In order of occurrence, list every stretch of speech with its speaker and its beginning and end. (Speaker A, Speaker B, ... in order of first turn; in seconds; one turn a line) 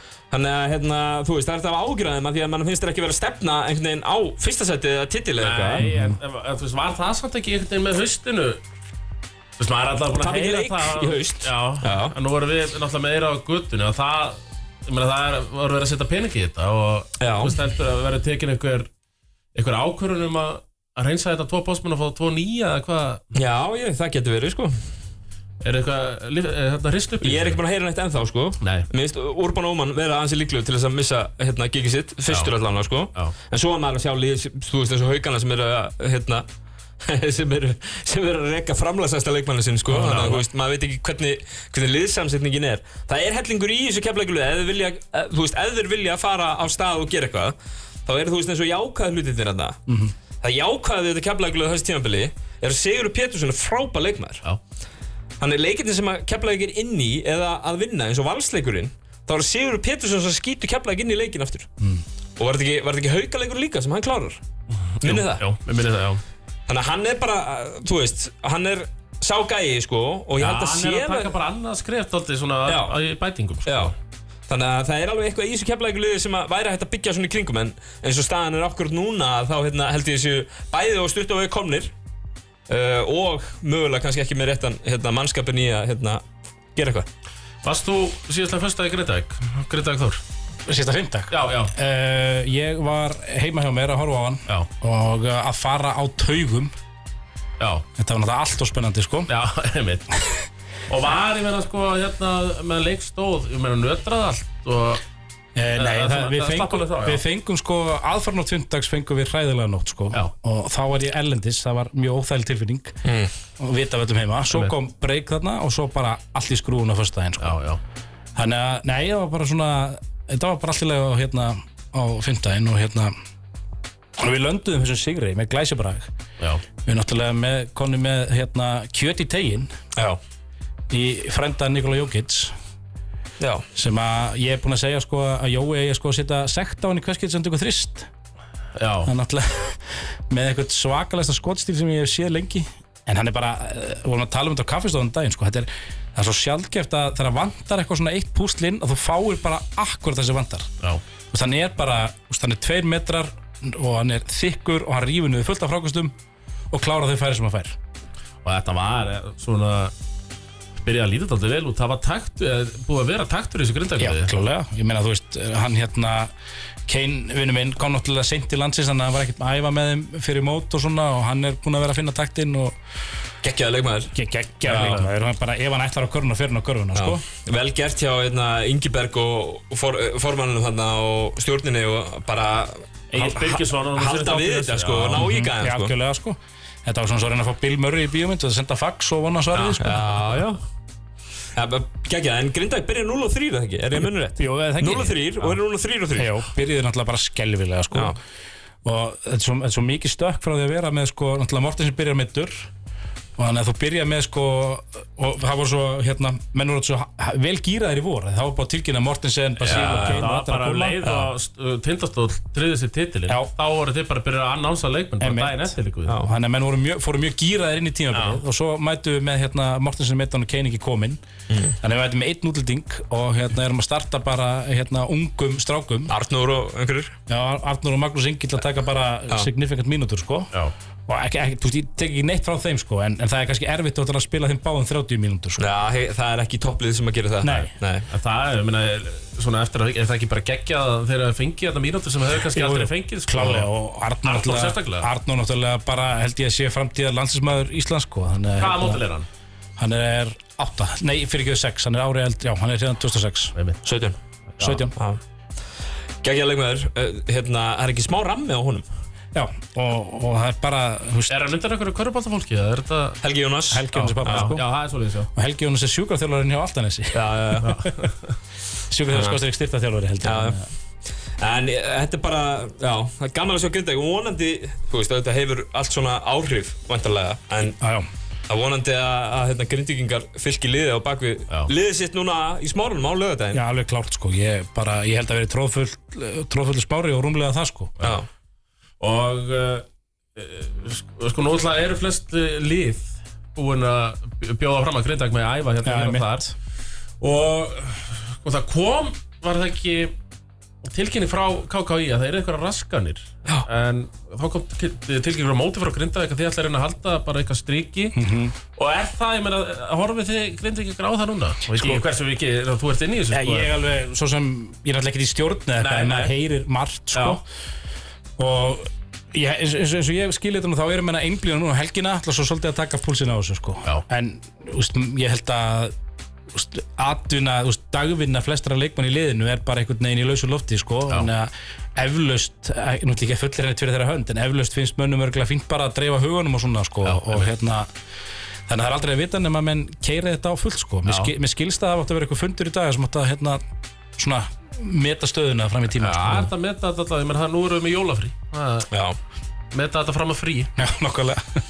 Speaker A: 0.3-5.9
Speaker B: 5.4-8.6
Speaker C: 5.8-6.2
Speaker B: 9.6-18.9
Speaker A: 10.1-12.1
Speaker A: 17.2-17.5
Speaker B: 19.5-23.2
Speaker A: 23.3-24.8
Speaker B: 25.6-27.6
Speaker A: 27.2-36.5
Speaker B: 28.6-28.9
Speaker B: 32.3-32.5
Speaker A: 37.0-47.5
Speaker B: 39.9-40.4
Speaker A: 48.0-49.8
Speaker C: 49.9-50.1
Speaker A: 50.4-54.4
Speaker A: 55.4-61.7
Speaker A: 62.4-64.4
Speaker B: 64.9-66.2
Speaker A: 65.0-65.4
Speaker A: 66.7-71.3
Speaker B: 70.4-73.9
Speaker A: 72.7-73.0
Speaker A: 73.7-73.9
Speaker A: 74.5-81.9
Speaker A: 82.7-86.2
Speaker A: 86.8-87.1
Speaker B: 87.6-90.2
Speaker C: 90.7-96.7
Speaker B: 91.3-91.7
Speaker B: 97.6-97.8
Speaker C: 98.0-99.3
Speaker B: 99.3-100.1
Speaker B: 100.9-105.0
Speaker C: 105.5-112.9
Speaker B: 105.8-107.2
Speaker A: 113.0-113.3
Speaker C: 113.6-117.5
Speaker B: 117.4-117.8
Speaker C: 118.3-123.1
Speaker C: 124.2-126.1
Speaker C: 126.8-129.7
Speaker C: 130.9-132.5
Speaker A: 133.4-133.6
Speaker C: 133.7-138.1
Speaker B: 138.8-139.1
Speaker C: 139.1-150.7
Speaker C: 151.3-156.1
Speaker C: 156.7-157.8
Speaker B: 158.4-159.9
Speaker B: 160.8-164.3
Speaker C: 164.0-166.3
Speaker C: 166.9-172.7
Speaker A: 173.4-174.1
Speaker C: 174.1-177.2
Speaker B: 174.7-175.1
Speaker A: 174.7-175.0
Speaker A: 176.9-185.9
Speaker B: 183.1-185.2
Speaker C: 185.1-190.0
Speaker B: 189.5-189.8
Speaker A: 189.8-190.6
Speaker A: 191.5-196.4
Speaker C: 194.4-195.6
Speaker C: 196.2-198.2
Speaker C: 198.8-202.7
Speaker C: 203.4-211.0
Speaker B: 209.6-216.2
Speaker A: 209.7-210.2
Speaker A: 211.0-211.3
Speaker C: 215.2-221.2
Speaker B: 218.1-218.4
Speaker A: 221.5-221.7
Speaker C: 221.8-226.1
Speaker A: 226.1-227.1
Speaker C: 227.3-230.5
Speaker C: 231.1-235.6
Speaker A: 235.6-238.1
Speaker C: 237.4-237.7
Speaker B: 238.1-243.7
Speaker C: 242.5-249.0
Speaker B: 244.2-245.1
Speaker B: 248.6-249.3
Speaker C: 249.8-253.5
Speaker B: 253.5-253.8
Speaker A: 253.8-254.2
Speaker C: 254.6-254.9
Speaker A: 254.9-255.2
Speaker A: 256.2-258.8
Speaker C: 259.3-261.3
Speaker B: 261.3-263.2
Speaker A: 263.2-264.5
Speaker C: 263.7-264.6
Speaker B: 264.0-265.3
Speaker C: 265.3-267.7
Speaker A: 267.1-267.8
Speaker B: 267.6-268.3
Speaker C: 268.9-270.7
Speaker A: 269.1-269.4
Speaker A: 270.2-270.6
Speaker A: 271.4-277.8
Speaker C: 277.8-278.1
Speaker A: 278.5-283.6
Speaker C: 283.5-287.9
Speaker A: 288.0-288.2
Speaker B: 289.0-289.8
Speaker B: 290.4-296.5
Speaker C: 295.8-296.5
Speaker B: 297.2-300.1
Speaker B: 300.9-308.2
Speaker C: 308.1-308.5
Speaker B: 308.8-313.7
Speaker C: 311.7-312.0
Speaker C: 313.3-317.4
Speaker B: 315.8-316.3
Speaker B: 317.1-317.4
Speaker C: 318.4-325.9
Speaker C: 326.5-337.9
Speaker B: 337.0-337.5
Speaker C: 338.7-343.6
Speaker B: 341.1-341.3
Speaker C: 344.2-346.5
Speaker B: 346.0-348.9
Speaker A: 348.9-349.2
Speaker B: 349.7-350.7
Speaker C: 350.8-351.6